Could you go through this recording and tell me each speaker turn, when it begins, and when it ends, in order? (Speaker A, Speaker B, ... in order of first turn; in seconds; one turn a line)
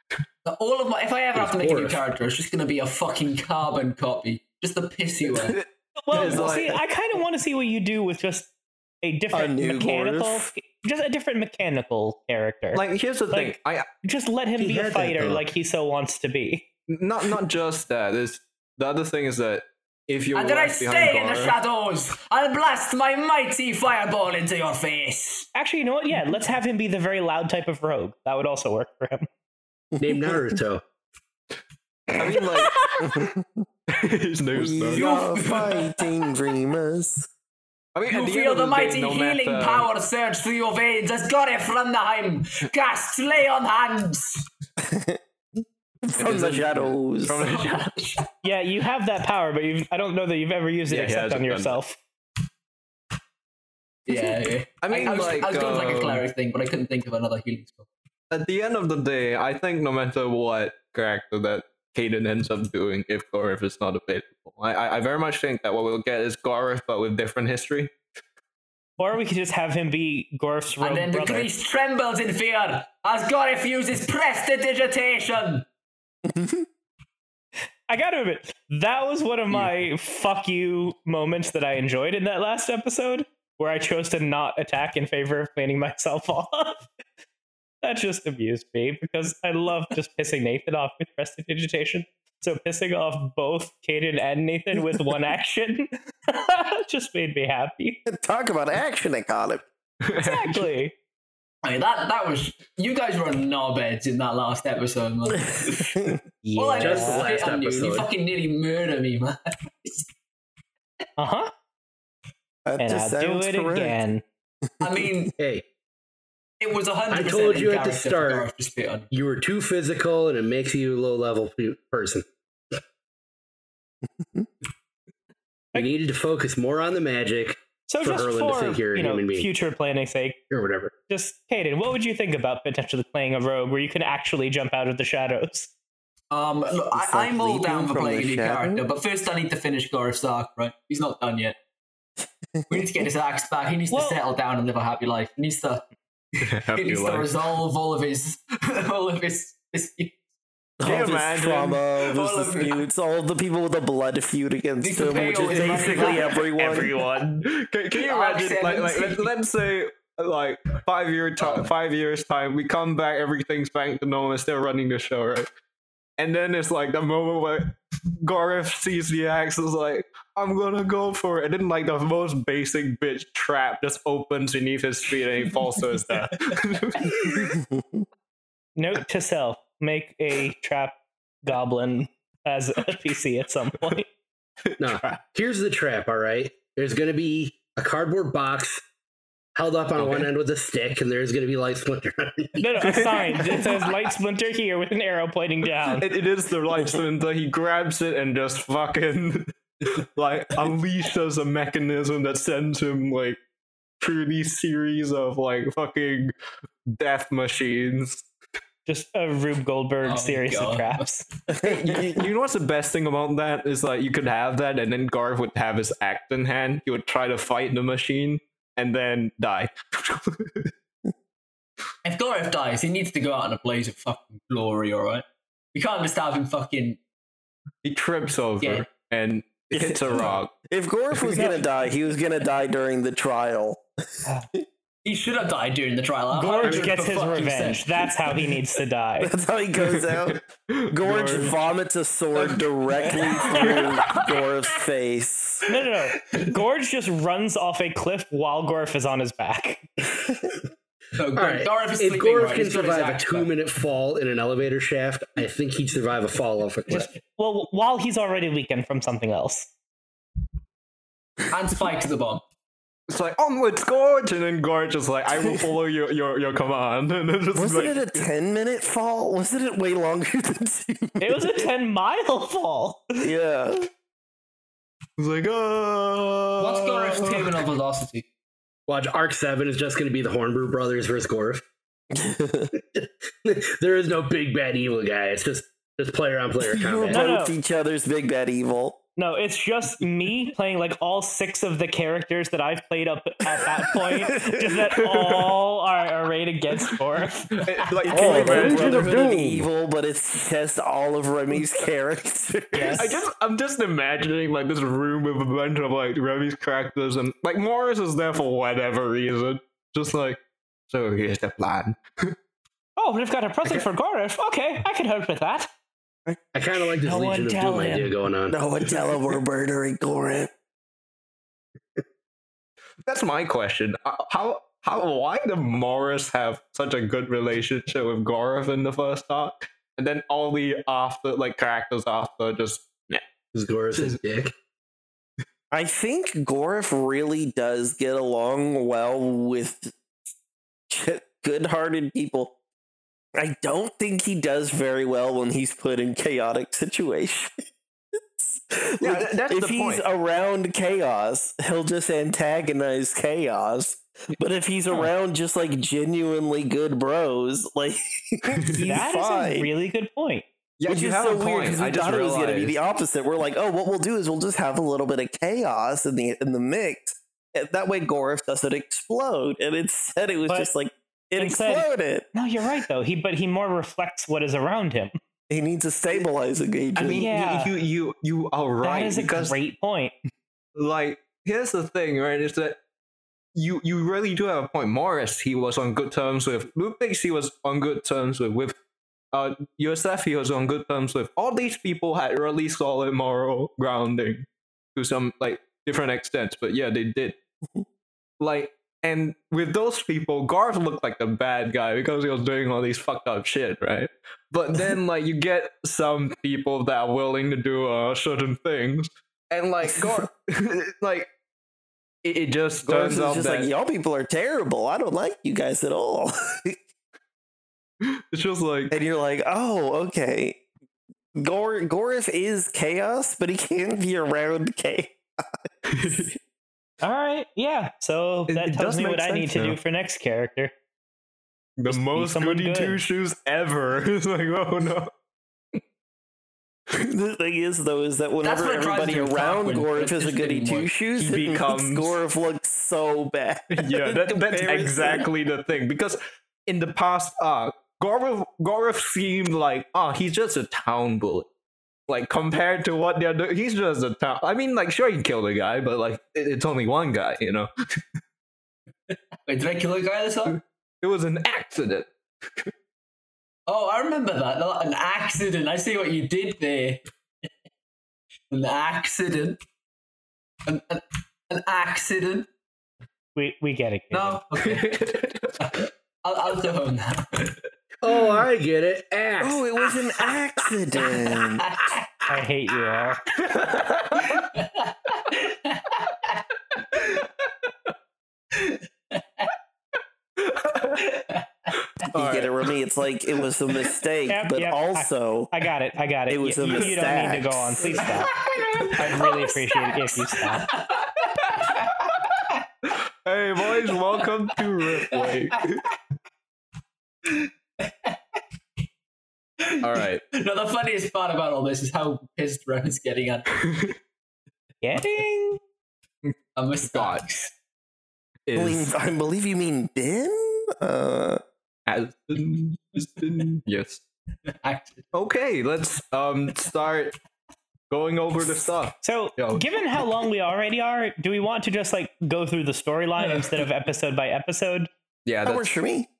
Speaker A: 0.5-5.6
Speaker B: 1.3-2.0
Speaker C: 5.4-6.8
Speaker D: 6.0-8.5
Speaker E: 6.2-6.5
Speaker D: 9.0-16.6
Speaker E: 9.3-10.5
Speaker C: 12.7-13.9
Speaker B: 14.6-15.4
Speaker C: 16.9-21.6
Speaker A: 20.3-25.5
Speaker D: 25.6-29.3
Speaker E: 30.0-30.6
Speaker B: 30.0-30.8
Speaker C: 32.2-32.7
Speaker E: 32.2-33.6
Speaker C: 33.9-35.1
Speaker E: 34.5-37.3
Speaker A: 34.9-36.1
Speaker C: 38.0-39.9
Speaker A: 38.1-44.5
Speaker E: 44.8-45.2
Speaker E: 46.0-47.5
Speaker C: 46.2-48.0
Speaker A: 47.4-48.2
Speaker D: 48.4-52.0
Speaker C: 50.9-51.8
Speaker A: 54.1-57.9
Speaker C: 54.8-56.2
Speaker C: 58.3-67.9
Speaker D: 69.0-71.5
Speaker A: 70.8-75.7
Speaker E: 76.3-76.7
Speaker D: 77.9-86.9
Speaker D: 87.8-98.0
Speaker E: 98.1-99.6
Speaker C: 100.0-100.7
Speaker D: 100.2-100.9
Speaker A: 101.6-110.1
Speaker E: 105.5-106.2
Speaker D: 106.4-107.3
Speaker B: 106.8-108.1
Speaker D: 111.2-111.5
Speaker E: 112.7-114.0
Speaker D: 112.8-114.2
Speaker A: 114.8-115.3
Speaker B: 115.4-115.6
Speaker A: 116.6-119.1
Speaker B: 117.1-118.5
Speaker B: 119.1-122.2
Speaker E: 124.2-124.5
Speaker B: 125.8-129.5
Speaker D: 127.9-130.4
Speaker B: 130.5-130.9
Speaker D: 131.1-135.7
Speaker A: 136.3-141.6
Speaker E: 136.9-138.8
Speaker E: 142.6-143.0
Speaker A: 142.7-145.8
Speaker D: 143.9-144.2
Speaker C: 146.4-147.3
Speaker A: 146.7-150.2
Speaker E: 150.8-157.0
Speaker C: 150.8-151.8
Speaker A: 152.0-152.8
Speaker A: 154.8-156.5
Speaker C: 155.4-165.5
Speaker A: 157.9-159.3
Speaker A: 161.4-161.7
Speaker C: 166.2-177.6
Speaker E: 177.3-178.1
Speaker D: 178.8-184.1
Speaker C: 184.7-185.2
Speaker B: 184.8-188.8
Speaker B: 189.6-192.9
Speaker C: 190.0-190.3
Speaker D: 192.6-196.1
Speaker C: 192.8-193.9
Speaker C: 195.9-203.4
Speaker C: 204.0-206.3
Speaker C: 206.9-208.2
Speaker D: 208.9-211.2
Speaker A: 210.0-211.1
Speaker E: 211.5-212.0
Speaker C: 211.6-220.7
Speaker A: 222.1-227.0
Speaker C: 227.8-230.5
Speaker A: 228.6-228.9
Speaker E: 229.7-234.2
Speaker C: 231.2-231.5
Speaker D: 231.3-231.6
Speaker A: 235.1-238.1
Speaker D: 236.3-239.3
Speaker B: 236.6-236.9
Speaker E: 239.2-240.4
Speaker C: 239.8-241.6
Speaker E: 240.9-245.6
Speaker A: 243.0-244.2
Speaker C: 243.6-243.8
Speaker D: 245.7-249.8
Speaker A: 251.2-253.5
Speaker B: 251.3-257.1
Speaker D: 256.9-259.7
Speaker A: 261.5-262.4
Speaker C: 263.1-268.3
Speaker E: 267.5-271.5
Speaker D: 271.2-273.3
Speaker E: 273.2-273.9
Speaker C: 275.2-277.6
Speaker A: 276.6-278.2
Speaker B: 278.9-281.6
Speaker E: 282.1-282.7
Speaker B: 282.9-287.2
Speaker E: 286.7-289.0
Speaker D: 287.1-287.5
Speaker D: 289.2-297.5
Speaker E: 294.2-294.7
Speaker C: 297.5-299.6
Speaker B: 298.1-299.6
Speaker E: 298.1-303.2
Speaker D: 302.7-303.1
Speaker C: 302.9-312.4
Speaker D: 313.0-315.7
Speaker E: 316.3-317.0
Speaker B: 316.5-318.6
Speaker D: 316.9-318.1
Speaker E: 318.5-320.5
Speaker C: 323.1-333.2
Speaker B: 333.5-334.5
Speaker E: 335.7-339.9
Speaker E: 340.9-342.5
Speaker E: 343.4-347.6
Speaker E: 348.3-359.7
Speaker C: 349.0-350.0
Speaker C: 358.5-358.9
Speaker D: 358.8-360.4
Speaker C: 360.8-362.8
Speaker E: 360.9-372.3
Speaker D: 371.4-375.2
Speaker E: 375.5-377.3
Speaker C: 376.9-379.6
Speaker D: 377.1-377.7
Speaker D: 378.8-380.1
Speaker C: 380.8-382.8
Speaker C: 383.6-388.7
Speaker C: 389.3-397.4
Speaker C: 398.4-411.3
Speaker E: 409.8-410.3
Speaker C: 412.2-413.7
Speaker E: 412.8-416.8
Speaker C: 418.0-418.9
Speaker E: 418.9-420.6
Speaker E: 421.4-426.3
Speaker C: 425.9-426.3
Speaker D: 427.0-430.7
Speaker C: 428.5-429.8
Speaker C: 431.8-435.1
Speaker D: 431.9-433.0
Speaker E: 436.9-445.3
Speaker A: 438.4-440.9
Speaker C: 441.1-442.1
Speaker C: 443.7-451.5
Speaker C: 452.1-457.7
Speaker A: 459.1-460.6
Speaker C: 460.5-462.7
Speaker A: 463.7-467.0
Speaker A: 468.5-469.6
Speaker A: 470.7-472.5
Speaker D: 473.4-474.4
Speaker A: 474.1-477.6
Speaker C: 474.6-475.5
Speaker B: 478.0-479.6
Speaker E: 479.4-481.7
Speaker A: 480.0-480.4
Speaker A: 480.9-482.2
Speaker D: 482.3-483.2
Speaker C: 483.5-484.4
Speaker A: 484.2-487.3
Speaker A: 488.5-489.5
Speaker C: 490.4-491.0
Speaker A: 490.9-491.7
Speaker C: 492.1-492.5
Speaker E: 492.1-495.5
Speaker D: 494.3-498.3
Speaker E: 496.3-498.1
Speaker A: 498.2-502.1
Speaker D: 498.9-500.7
Speaker C: 503.2-505.8
Speaker A: 505.0-505.5
Speaker A: 507.2-508.1
Speaker A: 509.6-513.5
Speaker C: 509.8-510.2
Speaker D: 514.8-515.6
Speaker A: 516.6-517.5
Speaker C: 516.9-517.2
Speaker C: 518.5-518.9
Speaker E: 518.5-521.4
Speaker C: 521.9-524.0
Speaker A: 524.5-525.1
Speaker C: 525.1-527.2
Speaker C: 527.9-529.6
Speaker D: 529.0-534.9
Speaker A: 533.2-533.7
Speaker C: 535.2-535.7
Speaker E: 535.4-536.1